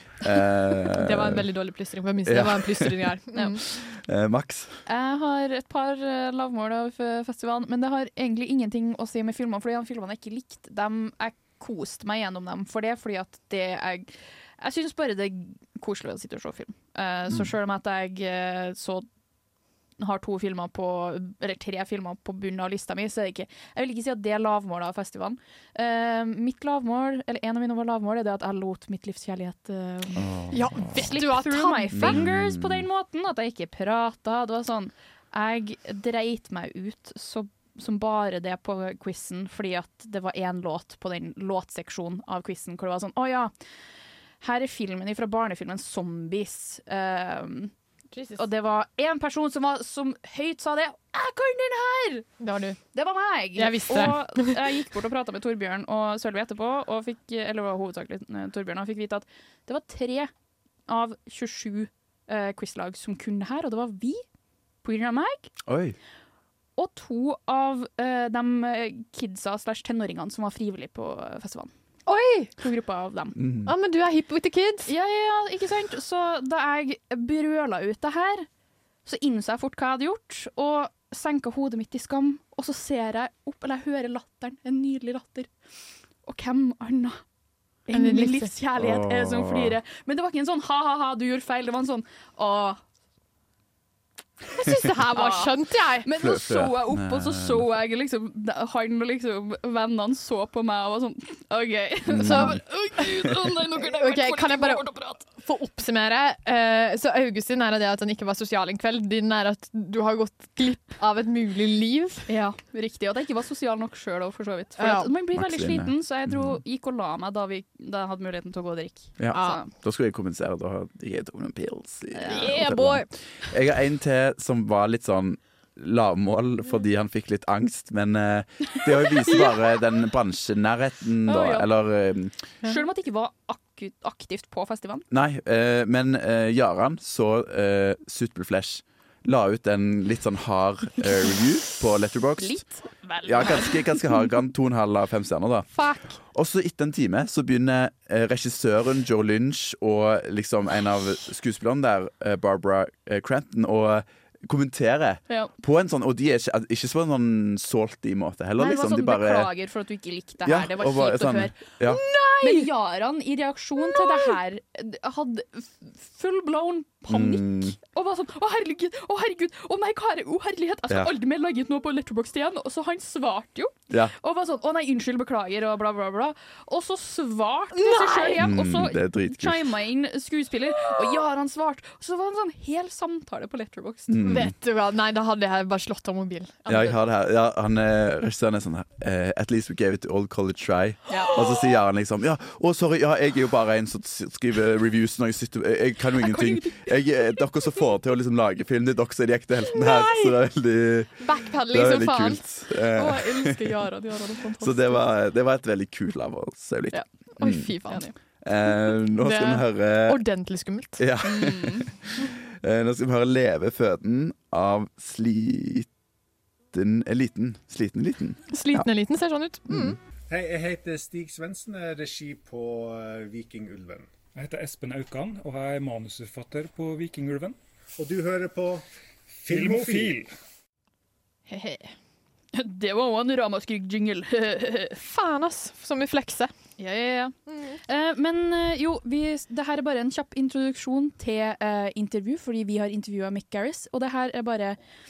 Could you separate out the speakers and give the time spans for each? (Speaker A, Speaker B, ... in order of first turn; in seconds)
Speaker A: 0.2-1.5, 2.2-3.0, 3.7-4.8, 30.2-31.1, 31.9-32.9, 65.7-66.0, 73.4-73.7, 88.8-89.8, 96.2-97.7, 102.1-102.6, 115.3-116.6, 119.2-132.4, 135.1-142.6, 143.2-145.7, 146.3-159.5, 160.4-162.0, 167.1-167.8, 178.4-179.7, 184.1-184.5, 186.7-203.8, 204.6-207.7, 208.4-210.2, 211.0-215.9, 216.7-218.9, 219.7-220.0
Speaker B: 0.8-3.7, 30.5-32.2, 48.1-48.4, 52.4-52.8, 53.6-54.6, 72.1-72.5, 73.7-74.9, 87.9-88.5, 94.5-96.1, 102.2-103.1, 103.8-112.3, 114.8-115.1, 119.3-119.6, 122.3-123.1, 161.8-162.7, 163.8-164.3, 177.7-178.5, 184.2-187.0, 191.1-191.7, 199.7-200.4, 201.2-202.4, 202.9-204.7, 207.0-208.1, 209.2-211.0, 218.5-220.0, 231.5-231.9, 235.0-236.5, 237.5-237.8
Speaker C: 4.9-19.1, 20.0-30.3, 30.8-43.5, 44.4-47.7, 48.4-52.3, 52.9-60.3, 60.9-64.2, 64.8-65.5, 66.8-71.7, 72.6-73.4, 74.9-78.5, 79.0-85.5, 86.3-87.2, 87.9-92.8, 95.1-95.5, 96.0-105.2, 112.3-119.7, 122.2-122.5, 131.3-131.7, 132.6-135.1, 142.4-144.1, 158.6-161.6, 162.4-184.3, 191.1-191.3, 196.2-196.9, 203.8-205.0, 207.9-208.1, 211.2-211.9, 232.5-235.0, 236.8-237.3, 237.9-244.8
Speaker D: 220.3-224.1, 228.0-230.2
Speaker E: 224.3-227.6, 229.5-230.3